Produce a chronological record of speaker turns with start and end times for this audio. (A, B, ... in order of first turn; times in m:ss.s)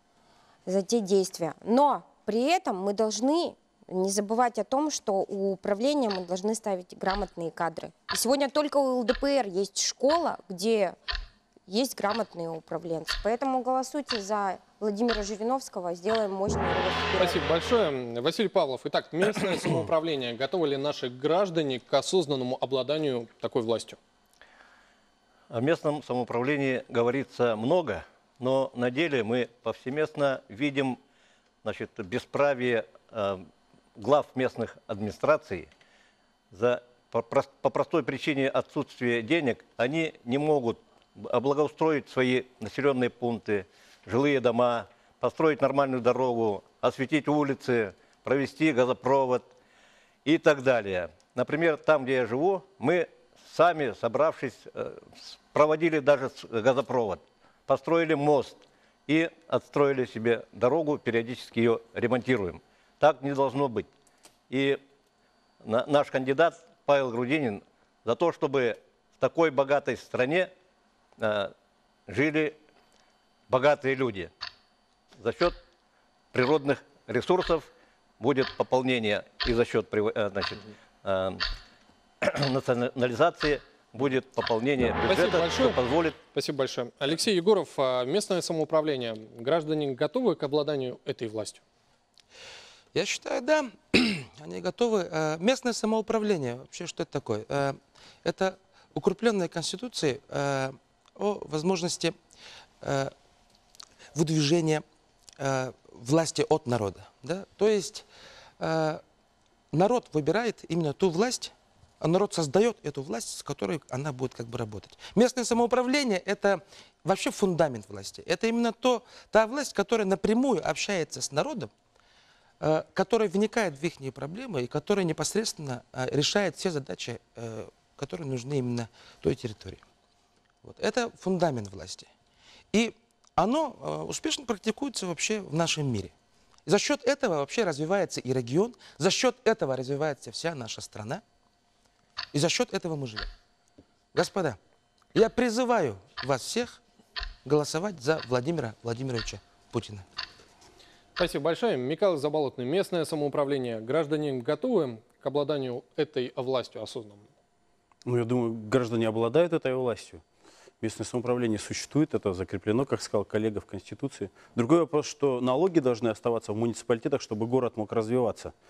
0:00.6-0:10.9 A
0:11.7-0:17.4 A
0:17.2-0:24.0 B
0:25.5-0:31.0 C
0:31.6-0:35.7 C
0:36.5-0:49.4 C
0:50.2-1:03.9 C
1:04.5-1:04.8 C
1:05.6-1:10.5 C
1:11.2-1:11.5 C
1:12.1-1:12.6 C
1:13.5-1:14.3 C
1:15.2-1:15.6 C
1:16.3-1:17.7 C
1:18.2-1:21.4 C
1:22.2-1:26.2 C
1:25.0-1:31.6 B
1:32.9-1:42.1 D
1:42.8-1:43.1 D
1:44.1-1:44.8 D
1:45.4-1:48.1 D
1:48.6-1:49.0 D
1:49.7-2:01.7 D
2:02.6-2:09.8 D
2:10.6-2:12.1 D
2:12.7-2:16.1 D
2:16.6-2:21.2 D
2:22.3-2:23.3 D
2:24.1-2:24.6 D
2:25.1-2:26.8 D
2:27.4-2:30.0 D
2:31.2-2:37.3 B
2:38.0-2:40.2 E
2:40.8-2:48.5 E